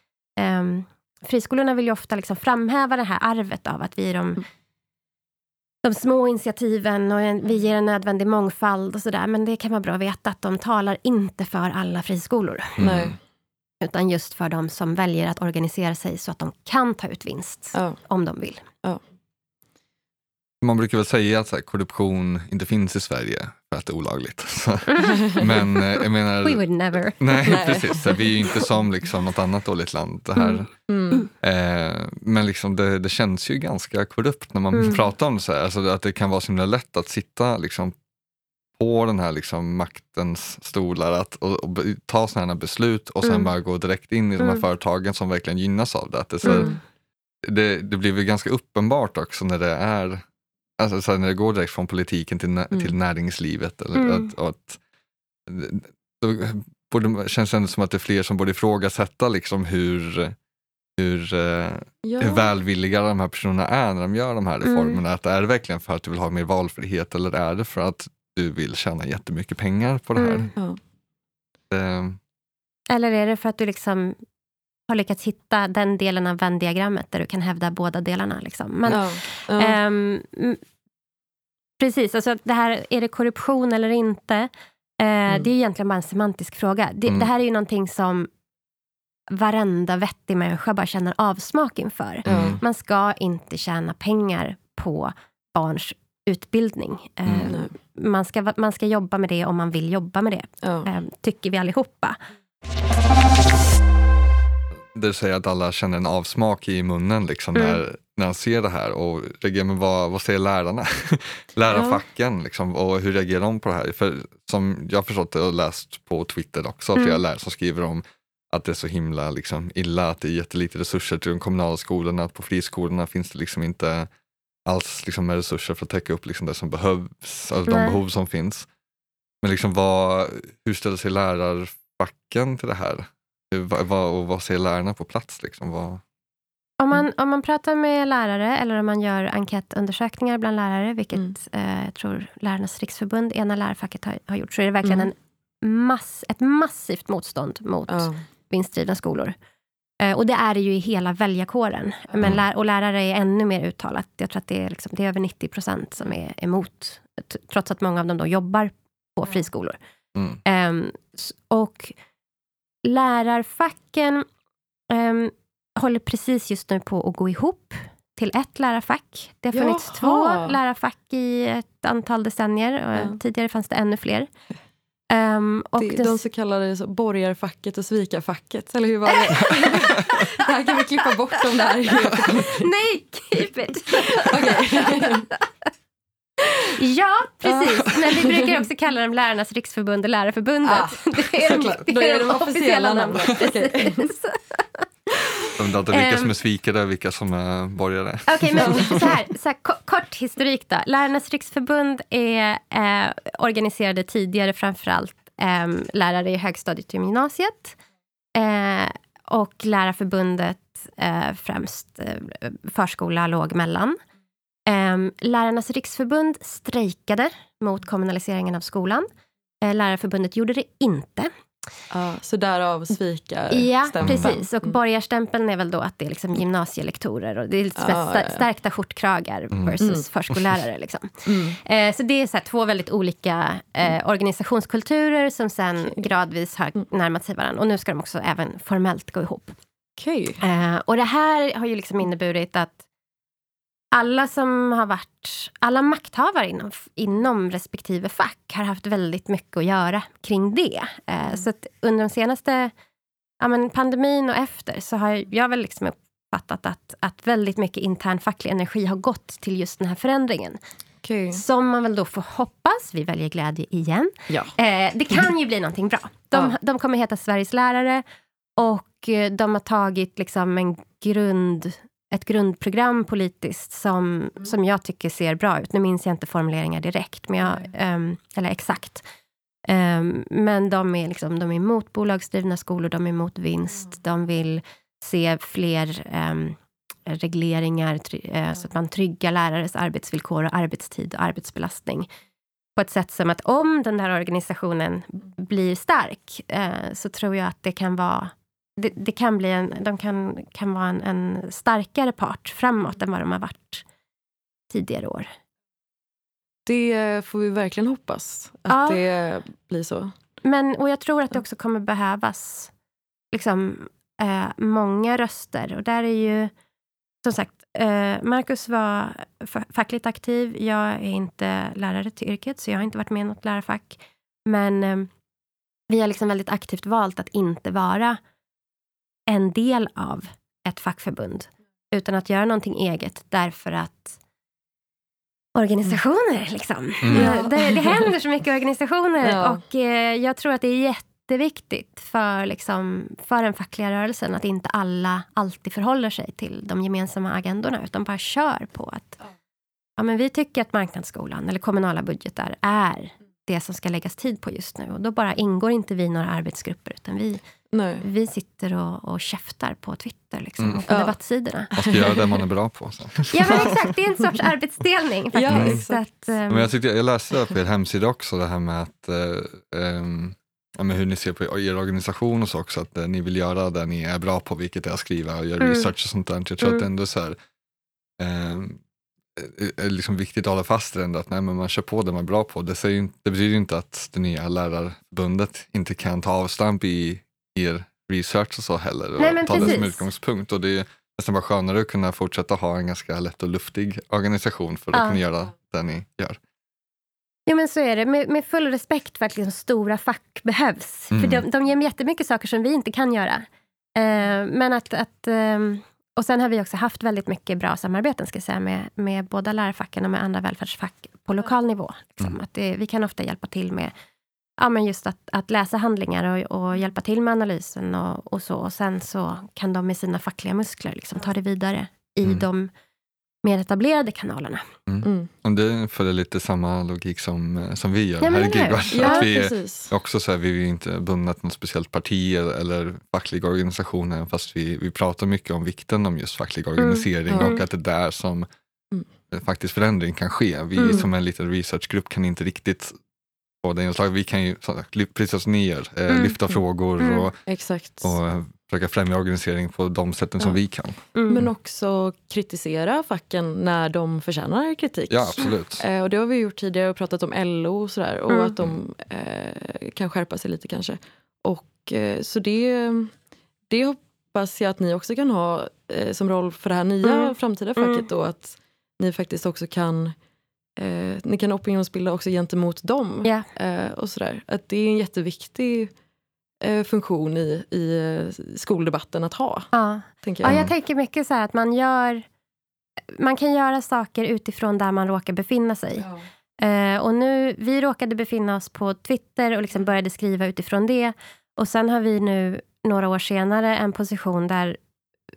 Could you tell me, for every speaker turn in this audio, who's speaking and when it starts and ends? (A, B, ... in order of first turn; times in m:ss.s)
0:00.4-0:04.4 A
0:05.8-0:12.8 A
0:12.8-0:13.2 B
0:12.8-0:13.2 C
0:13.8-0:18.7 A
0:20.6-0:26.6 B
0:24.9-0:27.6 A
0:25.2-0:25.5 C
0:27.2-0:30.7 B
0:27.4-0:28.2 C
0:30.9-0:31.3 C
0:31.4-0:37.9 B
0:34.7-0:35.0 A
0:38.8-0:46.7 B
0:43.2-0:43.5 A
0:46.4-0:46.8 C
0:46.5-0:46.8 A
0:47.4-0:50.2 B
0:50.8-0:54.8 B
0:54.0-0:54.3 A
0:55.5-1:00.4 B
1:01.0-1:10.5 B
1:02.0-1:02.5 C
1:04.6-1:05.0 A
1:10.2-1:10.5 A
1:11.7-1:12.2 B
1:12.9-1:14.2 A
1:14.9-1:20.6 A
1:18.9-1:19.8 C
1:21.8-1:28.3 A
1:29.3-1:42.2 A
1:32.2-1:32.6 B
1:32.3-1:32.6 C
1:37.3-1:37.5 B
1:40.6-1:40.9 C
1:44.9-2:04.1 B
1:47.6-1:47.8 A
2:04.7-2:08.7 B
2:07.7-2:08.0 A
2:09.4-2:16.0 B
2:16.8-2:29.4 A
2:24.8-2:25.1 C
2:27.9-2:28.2 C
2:30.0-2:39.8 A
2:40.4-2:42.0 A
2:42.8-2:44.3 A
2:44.9-2:54.3 A
2:49.5-2:50.6 C
2:55.1-2:56.2 A
2:55.8-3:02.7 C
2:59.1-3:00.4 A
3:02.2-3:05.4 A
3:04.0-3:05.3 C
3:06.6-3:14.9 A
3:07.5-3:08.5 C
3:10.6-3:14.1 C
3:15.6-3:19.1 B
3:15.9-3:16.4 A
3:18.3-3:27.8 A
3:18.6-3:19.0 C
3:28.4-3:34.0 A
3:34.7-3:39.1 A
3:39.6-3:41.3 A
3:41.9-3:44.5 C
3:43.5-3:59.6 A
3:44.0-3:44.3 B
3:47.8-3:48.5 C
3:49.8-3:50.1 C
3:51.3-3:51.6 C
4:00.0-4:00.4 C
4:00.4-4:02.8 A
4:03.9-4:12.7 A
4:13.4-4:20.6 A
4:21.0-4:21.4 C
4:21.3-4:28.0 A
4:28.6-4:39.0 A
4:39.7-4:52.1 A
4:52.8-5:03.8 A
5:04.7-5:05.3 A
5:06.7-5:10.2 C
5:08.7-5:09.0 A
5:10.4-5:12.7 A
5:13.3-5:16.5 A
5:17.2-5:25.1 A
5:25.9-5:28.2 A
5:29.3-5:34.2 A
5:35.6-5:49.2 A
5:37.0-5:37.4 B
5:37.1-5:38.1 C
5:39.2-5:39.6 C
5:50.0-5:57.4 A
5:57.7-5:58.0 C
5:58.0-6:01.7 A
6:00.6-6:00.9 B
6:00.9-6:01.2 C
6:01.7-6:02.3 C
6:01.8-6:03.8 B
6:03.3-6:06.7 A
6:05.3-6:06.1 C
6:05.5-6:05.8 B
6:06.5-6:17.4 B
6:15.6-6:15.9 A
6:18.2-6:18.8 B
6:19.4-6:36.4 B
6:29.2-6:30.1 A
6:34.9-6:35.2 A
6:37.5-6:53.9 A
6:41.1-6:41.4 B
6:54.6-7:02.7 A
7:03.4-7:04.6 A
7:04.9-7:18.5 B
7:05.0-7:05.3 C
7:08.2-7:09.3 A
7:08.9-7:09.9 C
7:16.8-7:17.6 A
7:17.3-7:17.6 C
7:19.3-7:22.9 B
7:20.8-7:21.0 A
7:23.6-7:27.5 B
7:26.1-7:26.4 A
7:27.0-7:27.3 A
7:27.5-7:28.1 C
7:28.0-7:31.0 B
7:31.2-7:31.5 A
7:31.3-7:43.1 C
7:35.1-7:35.8 B
7:43.7-7:50.2 C
7:47.0-7:48.0 A
7:50.8-7:55.9 C
7:56.6-7:59.7 C
7:59.7-8:02.2 A
8:00.2-8:00.6 C
8:00.4-8:00.7 B
8:03.2-8:06.1 A
8:06.6-8:14.8 A